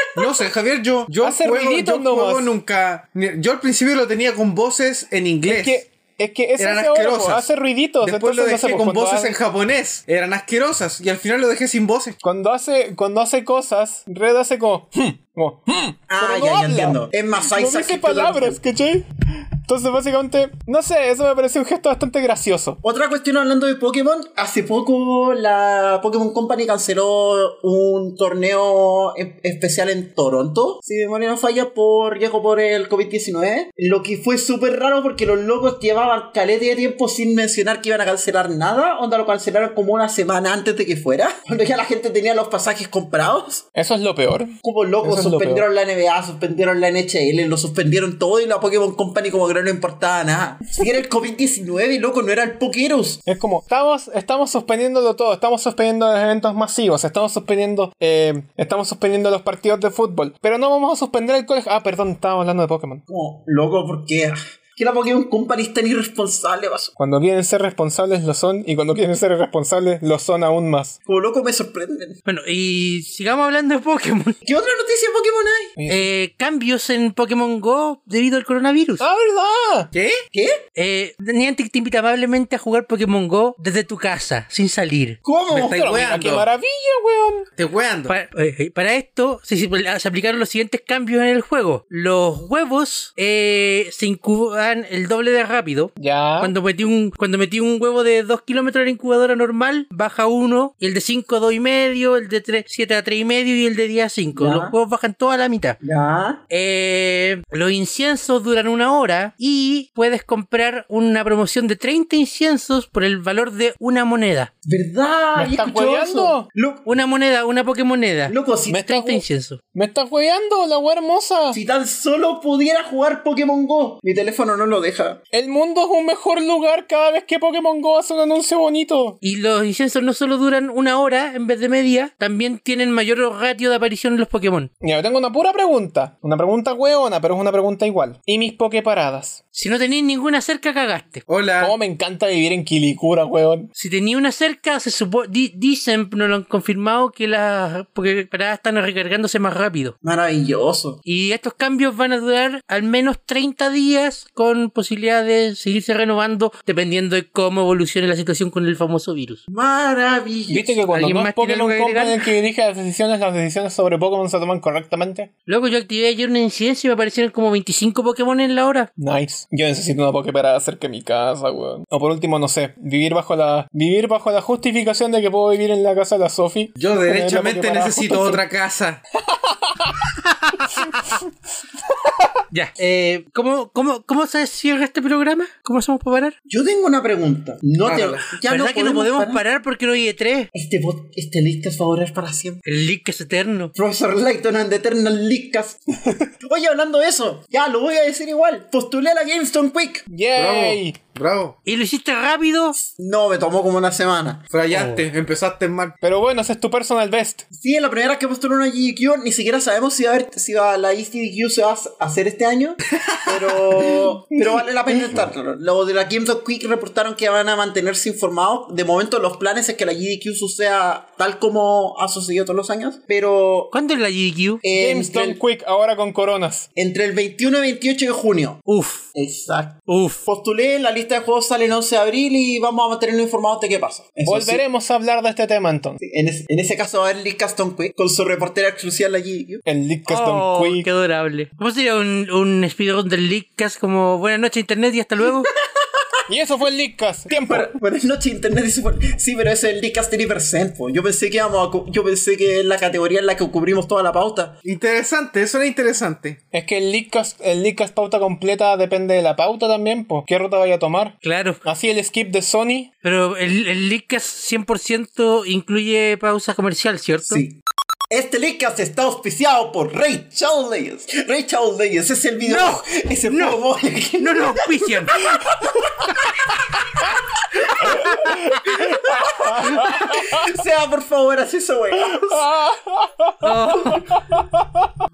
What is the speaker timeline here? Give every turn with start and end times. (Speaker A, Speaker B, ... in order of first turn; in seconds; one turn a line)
Speaker A: 0.1-5.8
Speaker B: 1.2-2.5
Speaker B: 5.5-9.3
Speaker A: 6.6-7.5
Speaker A: 8.0-12.2
Speaker B: 12.2-19.0
Speaker C: 16.1-18.6
Speaker B: 19.6-22.8
Speaker C: 22.8-43.6
Speaker B: 43.7-45.6
Speaker C: 44.6-53.2
Speaker B: 53.2-63.0
Speaker C: 63.1-66.9
Speaker B: 67.0-71.0
Speaker C: 71.0-72.2
Speaker D: 72.2-74.3
Speaker C: 74.4-75.7
Speaker B: 75.8-76.1
Speaker D: 75.9-79.0
Speaker B: 79.0-79.9
Speaker A: 79.9-80.2
Speaker C: 80.3-80.6
Speaker D: 80.8-85.2
Speaker C: 85.2-85.8
Speaker A: 85.5-86.5
Speaker B: 85.5-87.5
Speaker A: 87.6-88.1
Speaker D: 88.1-105.8
Speaker B: 96.0-96.5
Speaker C: 104.3-104.7
Speaker C: 105.8-106.4
Speaker D: 106.5-114.5
Speaker C: 114.6-116.8
Speaker B: 115.3-116.5
Speaker D: 116.8-119.6
Speaker C: 118.3-118.8
Speaker B: 118.7-121.6
Speaker C: 121.5-125.2
Speaker B: 125.3-129.2
Speaker D: 129.2-134.7
Speaker B: 134.8-139.4
Speaker D: 139.5-141.2
Speaker A: 141.3-141.7
Speaker B: 141.6-143.7
Speaker D: 143.8-149.9
Speaker C: 150.0-151.0
Speaker D: 151.1-159.4
Speaker C: 159.5-160.8
Speaker B: 160.5-165.3
Speaker D: 160.9-162.3
Speaker D: 165.5-168.9
Speaker B: 169.0-178.4
Speaker A: 176.8-179.0
Speaker B: 179.3-179.9
Speaker D: 180.3-180.9
Speaker D: 182.5-186.3
Speaker C: 186.5-189.4
Speaker A: 187.8-188.3
Speaker D: 188.3-190.5
Speaker C: 190.5-192.6
Speaker D: 192.6-193.7
Speaker C: 193.7-195.8
Speaker C: 196.4-200.1
Speaker B: 200.1-200.9
Speaker A: 200.3-201.6
Speaker D: 201.7-202.8
Speaker C: 202.8-204.4
Speaker A: 204.5-205.9
Speaker D: 204.7-205.0
Speaker B: 206.0-207.4
Speaker C: 207.5-223.7
Speaker A: 213.2-213.8
Speaker B: 213.8-215.1
Speaker D: 223.7-224.6
Speaker C: 224.6-225.4
Speaker B: 224.7-226.7
Speaker C: 226.8-228.6
Speaker D: 228.7-229.1
Speaker C: 229.1-234.6
Speaker D: 229.9-230.2
Speaker B: 234.2-236.0
Speaker C: 236.0-239.6
Speaker B: 239.6-240.8
Speaker D: 240.1-245.5
Speaker B: 246.3-247.7
Speaker C: 247.3-254.6
Speaker A: 254.6-256.4
Speaker B: 256.5-262.9
Speaker D: 261.2-261.6
Speaker D: 263.0-267.4
Speaker C: 267.2-276.3
Speaker D: 272.4-273.6
Speaker D: 274.2-275.2
Speaker C: 277.5-282.5
Speaker B: 277.8-278.1
Speaker B: 278.9-280.4
Speaker B: 281.9-284.9
Speaker D: 283.4-284.1